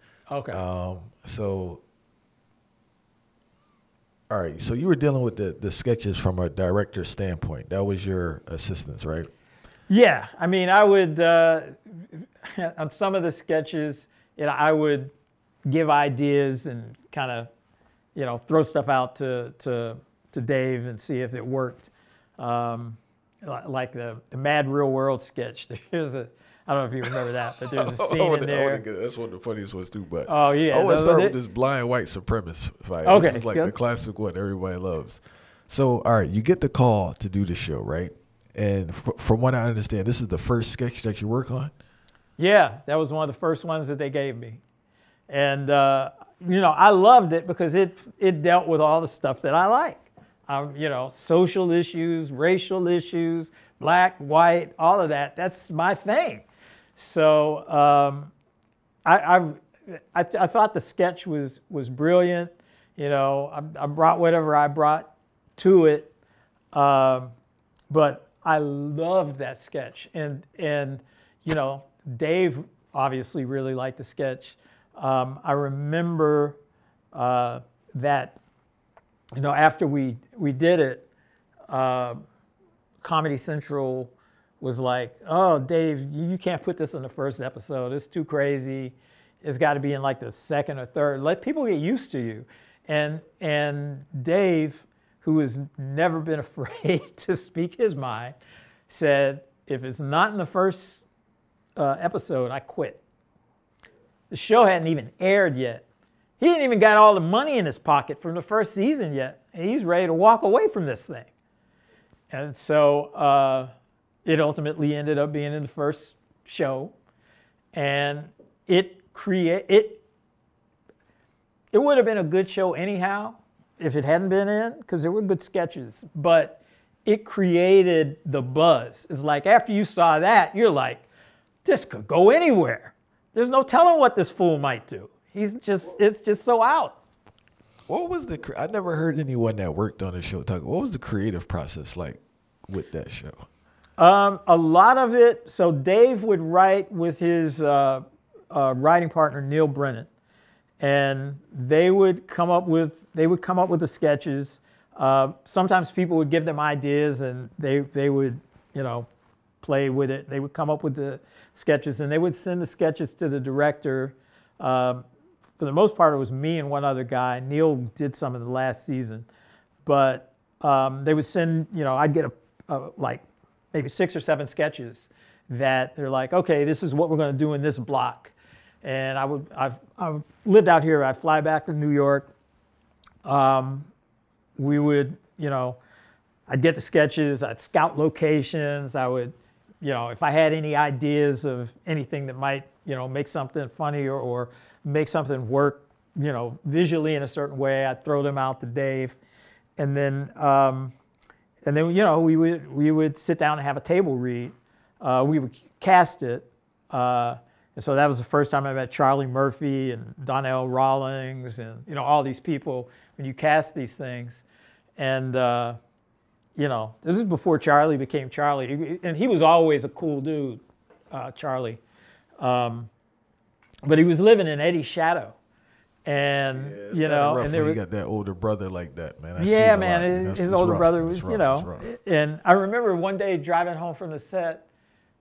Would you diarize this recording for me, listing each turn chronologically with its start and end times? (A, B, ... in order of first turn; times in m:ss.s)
0:00.3-0:00.6 A
0:00.5-0:01.8 B
0:04.3-0:09.3 B
0:09.9-0:15.1 A
0:15.7-0:17.5 A
0:18.2-0:28.8 A
0:27.8-0:41.7 B
0:30.3-0:31.4 A
0:33.0-0:33.8 A
0:42.4-0:44.6 A
0:45.3-0:56.5 A
0:57.0-0:58.3 A
0:59.0-1:06.1 A
1:06.7-1:07.3 A
1:07.9-1:16.6 A
1:17.1-1:18.4 A
1:19.4-1:21.1 A
1:21.7-1:22.2 A
1:23.0-1:38.4 A
1:38.9-1:41.0 A
1:41.8-1:43.0 A
1:44.3-1:45.8 A
1:46.4-1:51.3 A
1:52.3-1:53.7 A
1:54.2-1:56.9 A
1:57.7-2:00.0 A
2:01.7-2:11.1 A
2:11.6-2:17.0 A
2:17.9-2:23.5 B
2:24.0-2:30.1 A
2:30.8-2:39.1 A
2:39.6-2:45.0 A
2:45.6-2:49.3 A
2:49.8-3:02.3 A
3:03.2-3:03.9 A
3:04.6-3:05.8 A
3:06.5-3:19.2 A
3:19.8-3:20.9 A
3:21.6-3:34.4 A
3:35.0-3:35.8 A
3:36.6-3:41.8 A
3:42.4-3:42.9 A
3:43.9-3:45.4 A
3:46.0-3:47.8 A
3:46.6-3:51.9 B
3:49.4-3:54.6 A